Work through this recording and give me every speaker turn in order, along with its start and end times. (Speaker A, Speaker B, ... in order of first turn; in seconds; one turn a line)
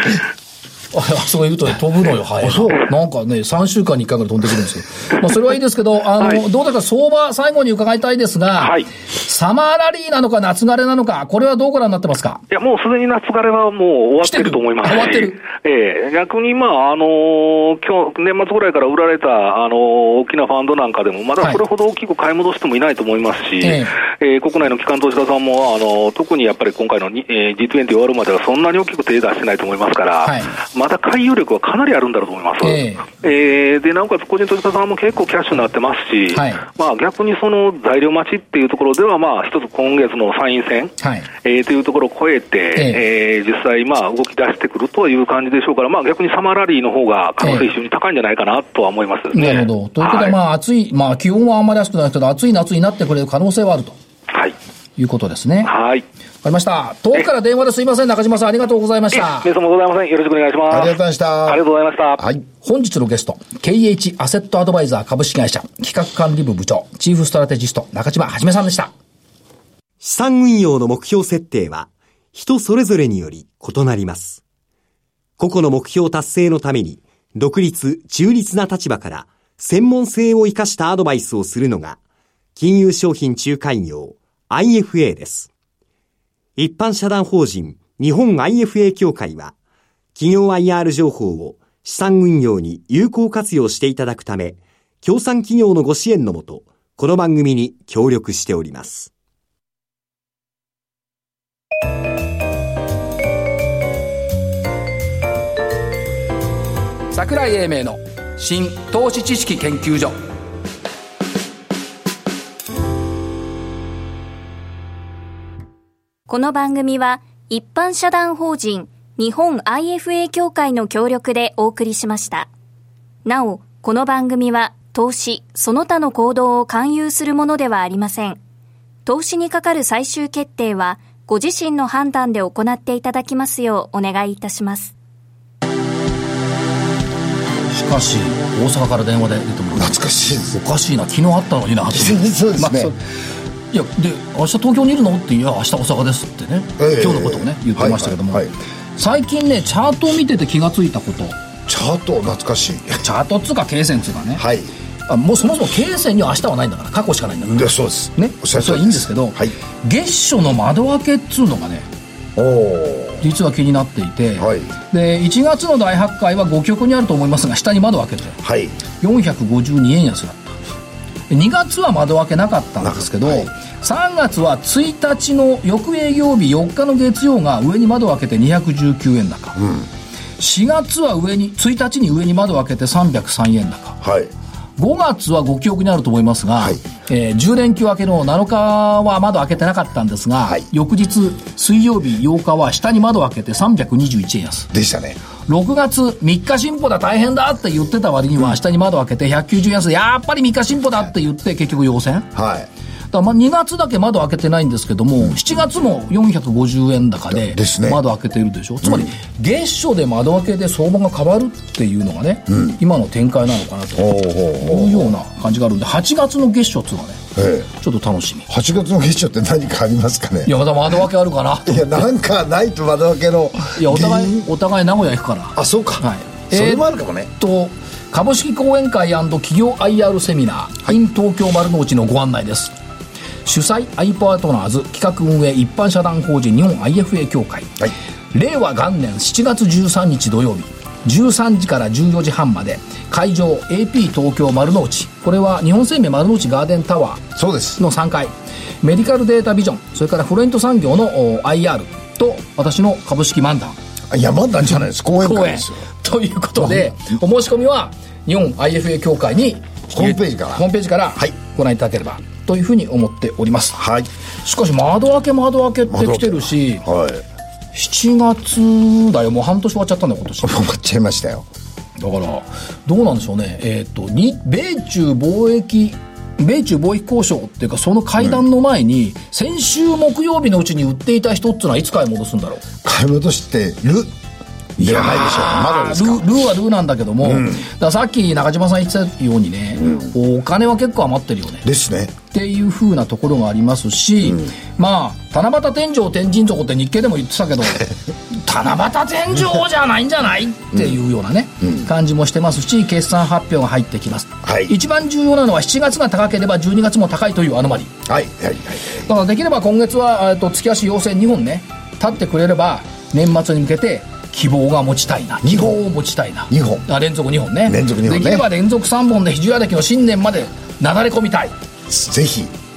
Speaker A: 0.9-12.4
Speaker B: 2.4-2.8
Speaker C: 8.6-8.8
Speaker C: 12.5-50.4
Speaker A: 14.2-15.4
Speaker A: 23.6-24.0
Speaker A: 30.2-30.5
Speaker A: 32.6-33.1
Speaker A: 36.3-36.6
Speaker A: 41.0-41.3
Speaker A: 42.8-43.0
Speaker A: 47.4-47.7
Speaker A: 49.3-54.0
Speaker A: 55.0-55.7
Speaker C: 55.6-56.0
Speaker A: 56.4-59.5
Speaker C: 59.1-62.2
Speaker B: 60.7-61.6
Speaker B: 62.2-62.4
Speaker A: 62.6-68.9
Speaker D: 70.0-74.4
Speaker D: 75.4-82.0
Speaker D: 82.5-85.5
Speaker D: 86.6-89.5
Speaker D: 90.2-99.1
Speaker A: 107.1-110.2
Speaker E: 116.3-122.5
Speaker E: 123.2-128.4
Speaker E: 129.1-134.9
Speaker A: 137.7-143.0
Speaker B: 139.7-140.6
Speaker B: 141.9-142.9
Speaker A: 143.7-148.4
Speaker B: 146.8-148.5
Speaker A: 149.0-151.3
Speaker B: 151.7-153.0
Speaker A: 152.9-154.4
Speaker B: 154.4-154.7
Speaker A: 155.1-157.6
Speaker B: 157.4-159.5
Speaker A: 158.2-161.9
Speaker B: 162.3-163.2
Speaker A: 163.2-168.4
Speaker B: 164.4-164.7
Speaker B: 168.4-168.8
Speaker A: 169.0-170.5
Speaker A: 171.3-179.6
Speaker B: 172.8-173.5
Speaker B: 179.6-179.9
Speaker A: 180.4-184.0
Speaker B: 184.0-184.3
Speaker A: 184.8-194.7
Speaker B: 194.7-195.2
Speaker A: 195.5-202.3
Speaker B: 202.3-202.7
Speaker A: 203.1-218.5
Speaker B: 207.3-208.0
Speaker B: 208.8-209.1
Speaker B: 212.5-212.8
Speaker B: 214.0-215.1
Speaker B: 217.3-217.7
Speaker B: 218.5-220.5
Speaker A: 220.4-221.9
Speaker B: 221.7-224.5
Speaker A: 223.7-232.7
Speaker B: 225.6-227.3
Speaker A: 233.4-237.7
Speaker A: 238.3-253.8
Speaker B: 247.3-247.8
Speaker B: 254.1-255.8
Speaker A: 255.2-263.8
Speaker B: 256.6-256.9
Speaker B: 259.9-260.6
Speaker B: 263.8-264.1
Speaker A: 264.4-266.8
Speaker B: 265.9-267.2
Speaker A: 267.7-270.6
Speaker B: 270.4-271.4
Speaker A: 272.0-282.6
Speaker B: 282.8-284.1
Speaker B: 284.8-286.3
Speaker A: 284.8-291.6
Speaker B: 287.2-287.6
Speaker B: 289.8-290.1
Speaker B: 291.6-292.1
Speaker A: 292.3-307.9
Speaker B: 304.4-304.7
Speaker B: 308.1-309.1
Speaker A: 309.0-321.5
Speaker B: 315.4-315.8
Speaker B: 316.5-316.9
Speaker B: 317.6-318.4
Speaker B: 321.9-322.5